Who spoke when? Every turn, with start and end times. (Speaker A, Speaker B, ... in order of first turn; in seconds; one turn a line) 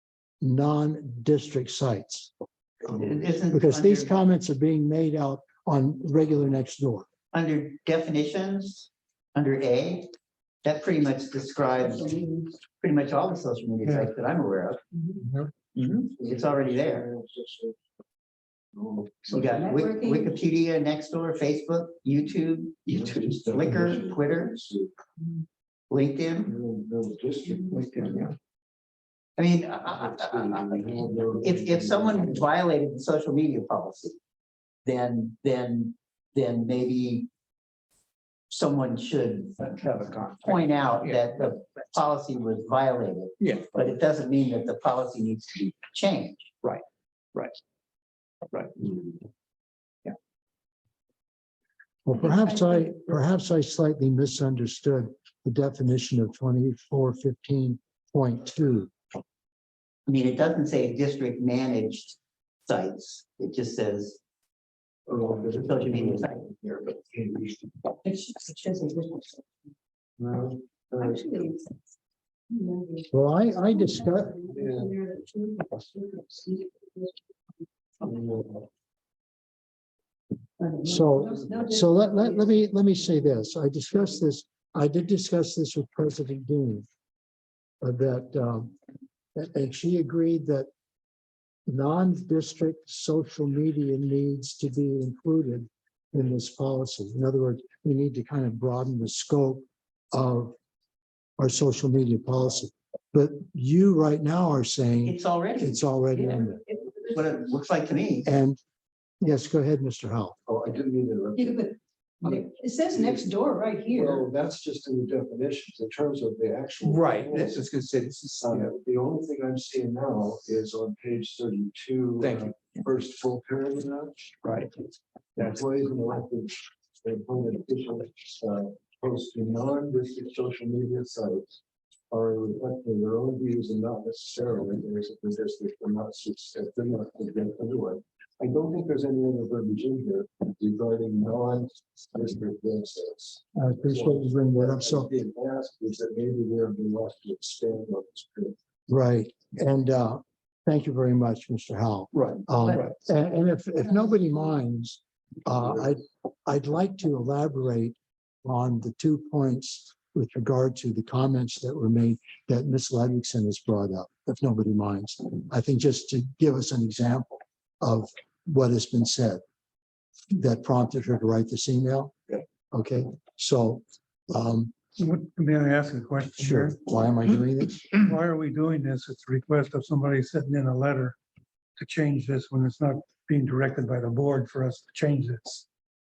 Speaker A: 0.4-2.3
Speaker B: 2.9-4.2
Speaker A: 2.9-7.1
Speaker B: 7.3-10.1
Speaker B: 10.6-14.8
Speaker C: 12.0-12.4
Speaker B: 15.7-17.1
Speaker D: 16.2-17.8
Speaker D: 18.8-19.2
Speaker C: 19.3-20.3
Speaker B: 19.3-24.6
Speaker D: 22.9-24.9
Speaker B: 25.9-26.5
Speaker D: 26.4-28.3
Speaker E: 27.8-28.3
Speaker B: 29.4-34.2
Speaker D: 30.1-32.5
Speaker B: 34.9-37.3
Speaker B: 38.5-39.8
Speaker E: 39.6-41.3
Speaker B: 40.4-46.5
Speaker E: 43.4-43.7
Speaker E: 48.5-49.1
Speaker A: 52.0-58.9
Speaker C: 52.2-53.0
Speaker B: 60.1-64.2
Speaker D: 65.1-67.6
Speaker B: 65.6-66.8
Speaker C: 68.0-69.4
Speaker D: 70.2-71.4
Speaker C: 71.0-71.8
Speaker C: 72.5-77.6
Speaker A: 73.1-74.3
Speaker D: 74.5-75.0
Speaker D: 78.0-78.7
Speaker C: 80.6-83.4
Speaker A: 80.8-86.9
Speaker A: 87.8-88.8
Speaker A: 89.3-90.7
Speaker A: 91.7-100.5
Speaker A: 101.4-106.6
Speaker B: 105.0-105.8
Speaker C: 106.2-107.1
Speaker B: 107.1-108.3
Speaker A: 108.2-108.6
Speaker A: 109.2-110.4
Speaker D: 110.5-111.6
Speaker C: 111.4-114.3
Speaker D: 112.2-113.3
Speaker D: 113.9-117.6
Speaker E: 116.8-118.7
Speaker D: 118.4-124.3
Speaker E: 122.2-122.8
Speaker E: 124.4-124.9
Speaker D: 125.4-131.5
Speaker D: 132.1-148.6
Speaker A: 143.6-145.1
Speaker A: 148.9-169.4
Speaker E: 152.1-152.9
Speaker A: 170.3-174.7
Speaker F: 175.0-176.8
Speaker A: 176.4-177.9
Speaker F: 178.0-181.2
Speaker F: 181.8-185.7